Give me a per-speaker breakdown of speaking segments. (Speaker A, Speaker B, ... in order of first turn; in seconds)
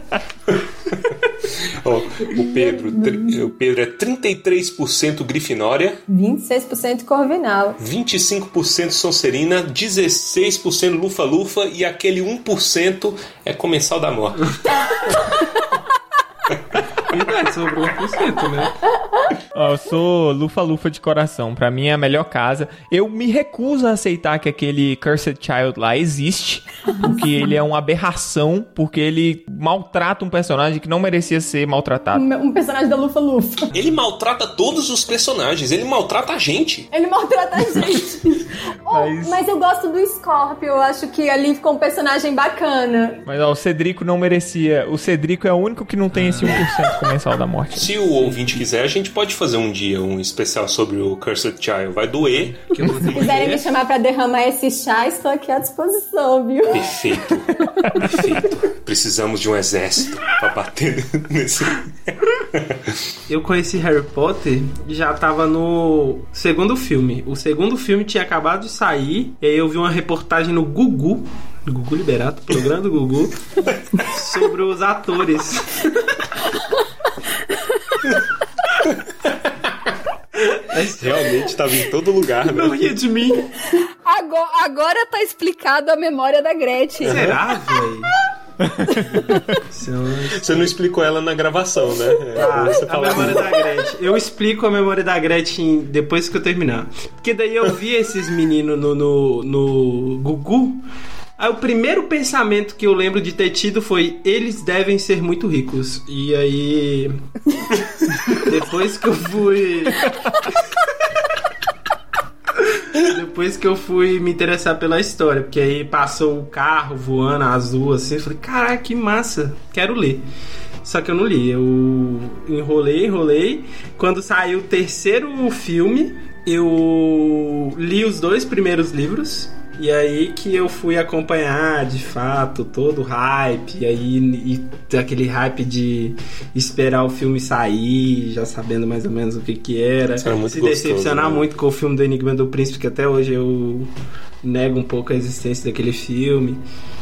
Speaker A: 1.8-6.0, 7.8-14.5, 33.7-36.9, 47.8-53.6, 56.7-61.8, 81.0-82.8, 87.0-87.3, 90.4-93.6, 140.2-141.5
Speaker B: 2.3-3.4, 6.1-7.8, 32.1-33.7, 36.9-43.2, 53.1-56.9
Speaker C: 17.1-18.8, 46.1-46.6, 48.2-48.6, 52.4-53.6, 63.3-73.4, 74.1-75.9, 80.4-81.4, 82.4-83.5, 87.0-88.1, 89.2-90.7, 92.3-100.8, 101.4-107.2, 108.3-110.1, 112.9-120.2, 120.8-143.9, 144.4-146.6
Speaker D: 19.5-32.2, 38.9-39.4, 43.3-47.9, 88.6-88.9
Speaker E: 84.0-87.3